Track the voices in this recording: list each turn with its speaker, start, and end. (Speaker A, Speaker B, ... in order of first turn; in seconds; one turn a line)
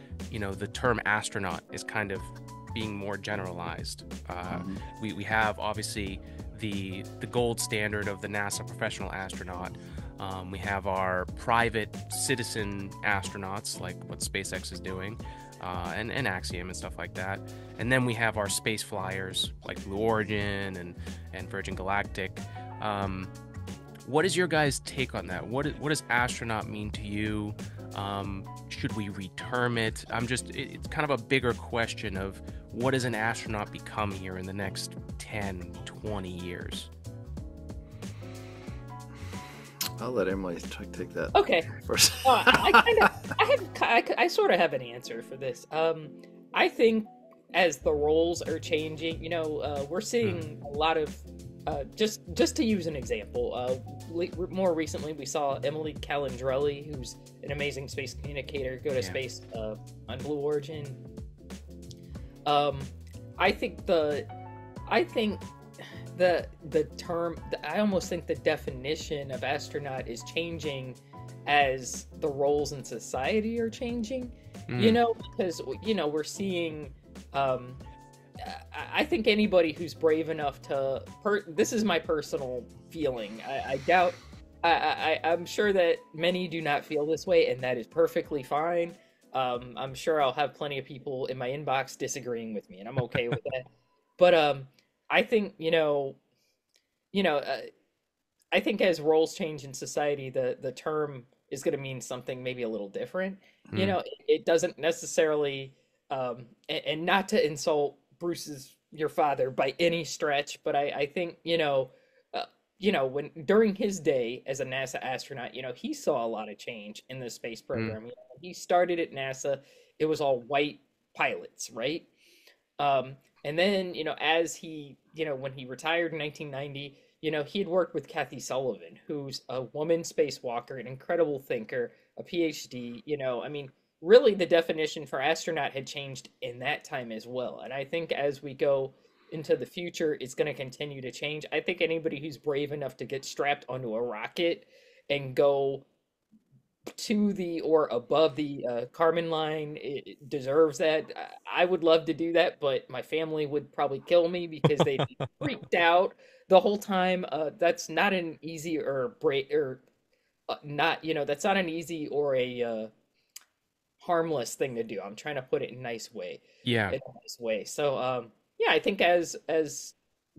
Speaker A: 0.3-23.3
Speaker B: 4.5-4.8
Speaker A: 24.1-36.9
Speaker B: 40.0-42.9
Speaker C: 41.3-41.7
Speaker C: 42.2-61.0
Speaker C: 62.5-64.3
Speaker C: 64.9-65.5
Speaker C: 66.1-77.8
Speaker A: 74.7-75.0
Speaker C: 78.4-93.7
Speaker C: 94.2-96.2
Speaker C: 97.1-97.7
Speaker C: 98.5-122.1
Speaker C: 122.8-145.9
Speaker C: 147.0-159.8
Speaker A: 154.7-155.4
Speaker C: 160.5-162.9
Speaker C: 164.0-170.0
Speaker A: 166.6-167.0